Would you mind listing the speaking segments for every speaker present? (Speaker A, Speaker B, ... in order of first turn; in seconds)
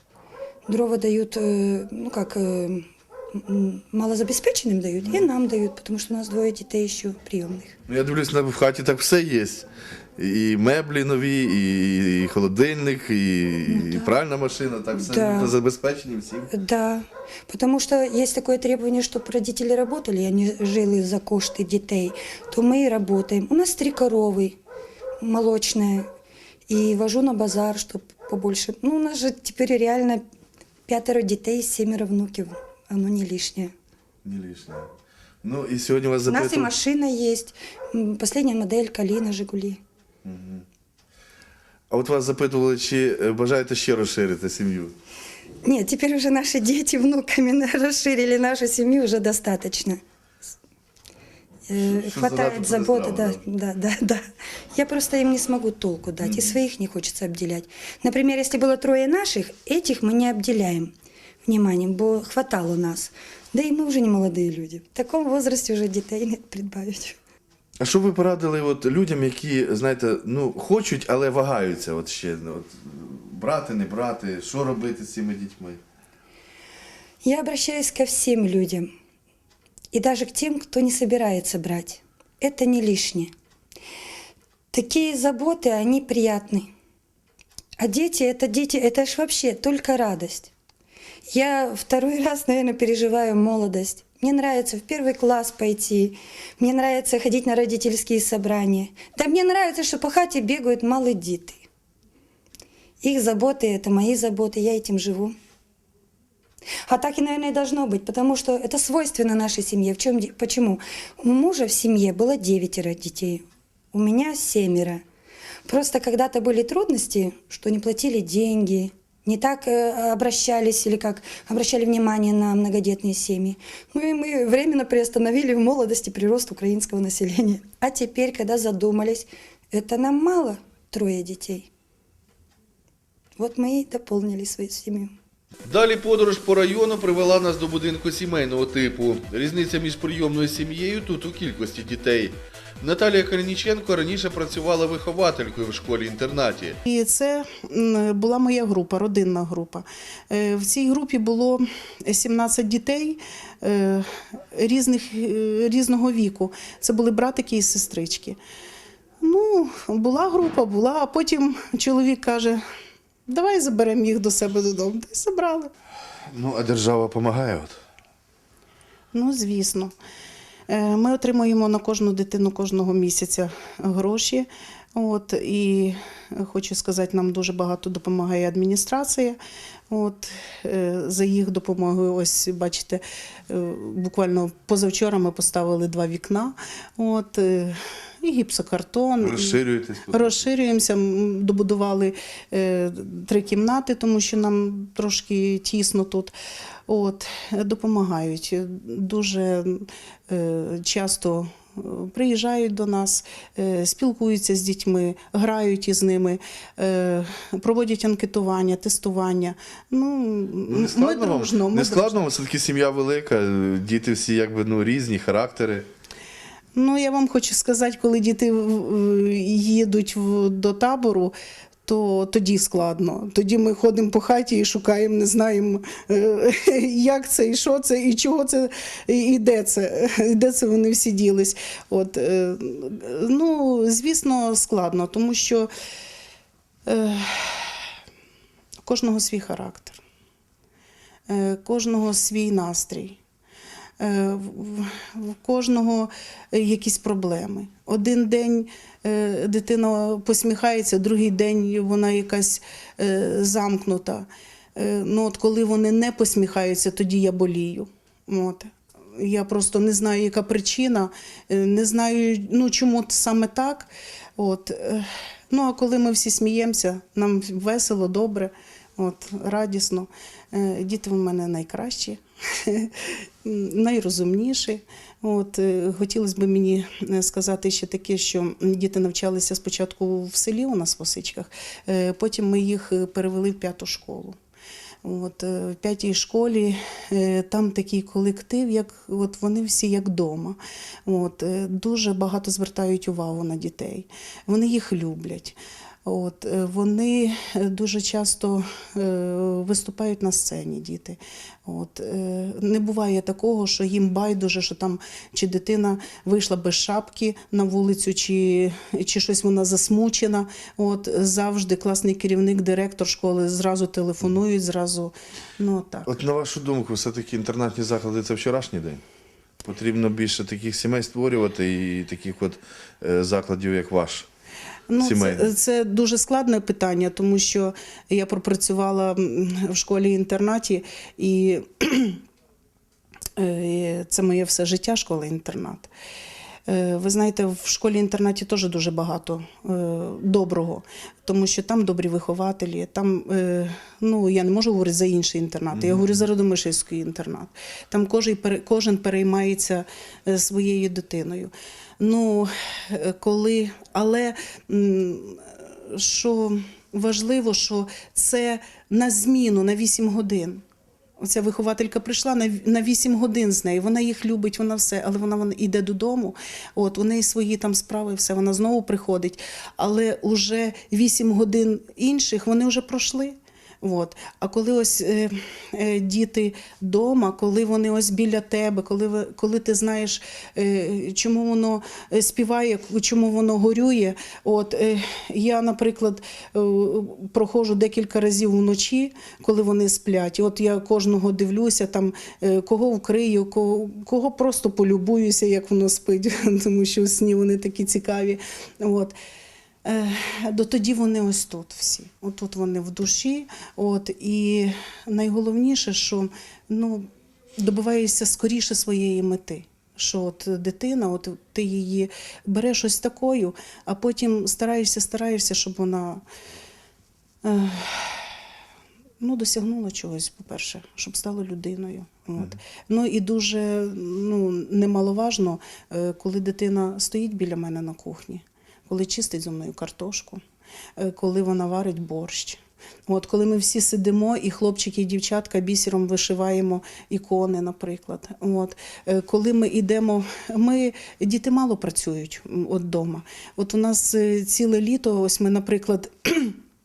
Speaker A: 0.7-7.8, 13.7-14.1, 14.9-15.6, 16.5-24.6, 25.2-26.1, 26.7-30.2, 30.9-33.7, 36.3-39.8, 45.6-50.0, 51.7-60.9, 61.5-67.2, 77.2-78.9, 79.9-83.3, 84.7-86.7, 87.8-90.5, 91.3-101.6, 103.0-105.4, 106.9-115.0, 115.7-131.7, 133.4-135.1
Speaker B: 7.9-16.5, 34.2-34.9, 35.4-36.7, 40.2-40.6, 41.9-45.0, 51.8-53.4, 56.2-56.5, 67.8-75.8, 135.7-146.8, 166.3-167.8, 189.2-190.4, 210.7-215.9, 316.1-319.0, 319.6-324.3, 325.0-325.5, 345.7-346.1
Speaker C: 146.8-158.4, 159.2-162.6, 163.3-165.7, 169.1-169.9, 170.7-179.4, 179.9-196.3, 196.9-212.2, 216.8-221.3, 221.9-235.7, 236.9-237.7, 238.8-240.0, 241.3-243.2, 244.0-284.4, 285.0-316.1, 324.9-332.2, 333.4-335.9, 336.7-360.6, 361.2-399.2, 399.9-416.2, 417.4-418.3, 419.2-430.4, 431.0-446.6